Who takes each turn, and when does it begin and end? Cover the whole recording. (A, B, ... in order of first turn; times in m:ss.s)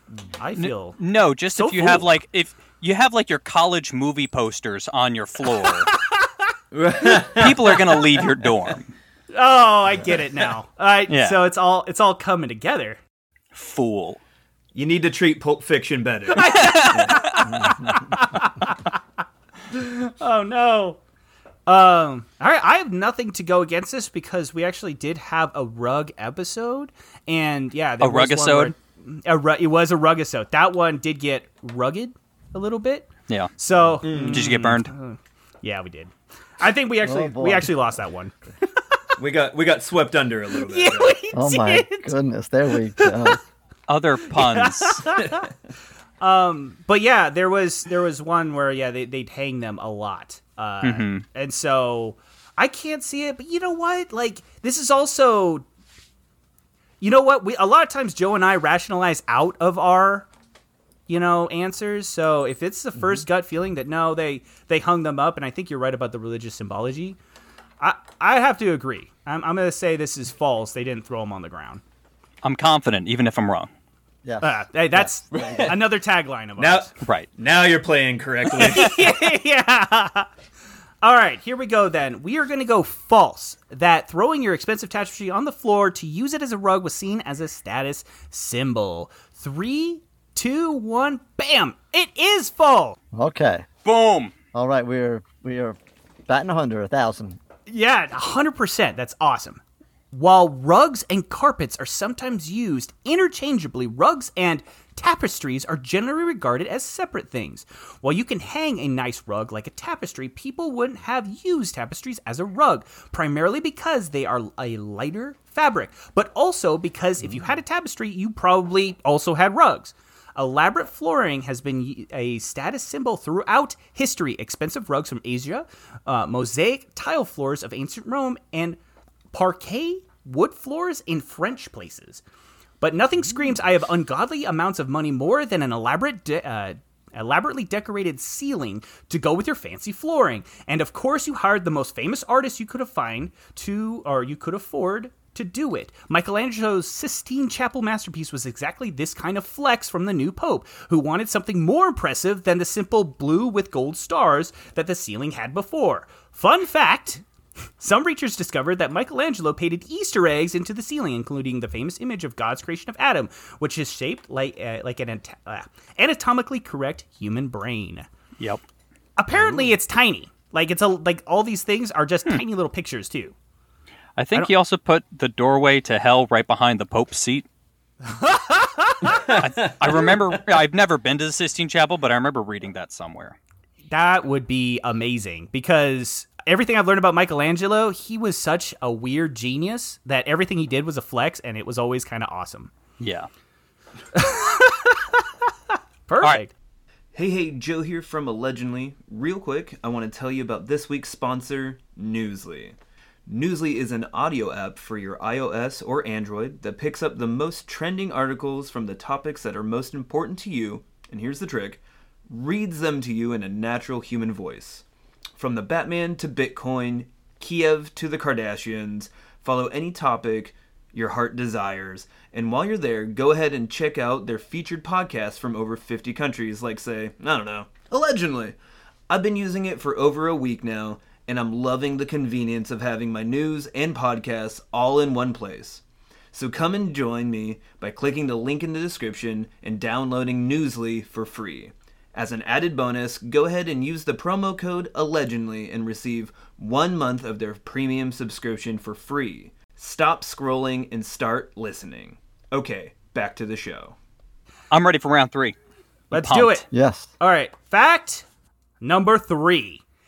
0:00.4-0:01.0 A
0:00.6-0:05.9 B
0:01.5-0:02.1 A
0:05.5-0:06.4 A
0:06.7-0:08.0 C
0:07.2-0:08.9 B
0:09.3-0:13.0 A
0:11.1-0:11.4 B
0:13.5-0:14.2 B
0:14.7-0:17.3 C
0:16.4-0:19.0 A
0:16.4-0:17.5 B
0:17.5-0:18.1 D
0:19.7-0:21.0 A
0:21.7-0:38.4 A
0:28.0-0:28.7 B
0:34.0-0:34.5 C
0:34.1-0:34.9 B
0:37.0-0:37.7 D
0:39.2-0:41.2 C
0:40.6-0:42.2 A
0:41.3-0:43.4 D
0:43.0-0:43.4 A
0:43.9-0:45.1 B
0:44.3-0:45.5 A
0:46.2-0:55.6 A
0:50.8-0:51.2 B
0:57.0-1:00.3 A
1:01.1-1:07.2 A
1:07.8-1:11.8 A
1:12.4-1:13.7 B
1:14.2-1:15.8 D
1:14.4-1:16.9 A
1:15.3-1:15.8 C
1:16.6-1:19.1 C
1:17.0-1:17.3 B
1:18.5-1:20.3 A
1:21.0-1:33.0 A
1:33.1-1:33.7 D
1:33.8-1:34.3 B
1:34.5-1:37.4 D
1:37.7-1:39.6 A
1:40.1-2:08.8 A
2:09.3-2:12.2 A
2:12.8-2:37.2 A
2:37.8-2:48.1 A
2:49.2-2:53.4 A
2:54.2-2:57.4 B
2:58.0-2:59.3 A
2:59.0-3:00.3 C
2:59.3-3:03.4 B
3:03.9-3:12.7 A
3:13.0-3:13.3 B
3:14.1-3:16.5 A
3:17.1-3:22.8 C
3:23.3-3:34.8 C
3:35.4-3:48.6 C
3:49.1-3:55.8 C
3:56.3-4:14.0 C
4:14.7-4:15.6 B
4:16.1-4:16.6 B
4:16.1-4:16.7 A
4:16.7-4:17.1 D
4:17.2-4:18.2 A
4:18.8-4:19.8 A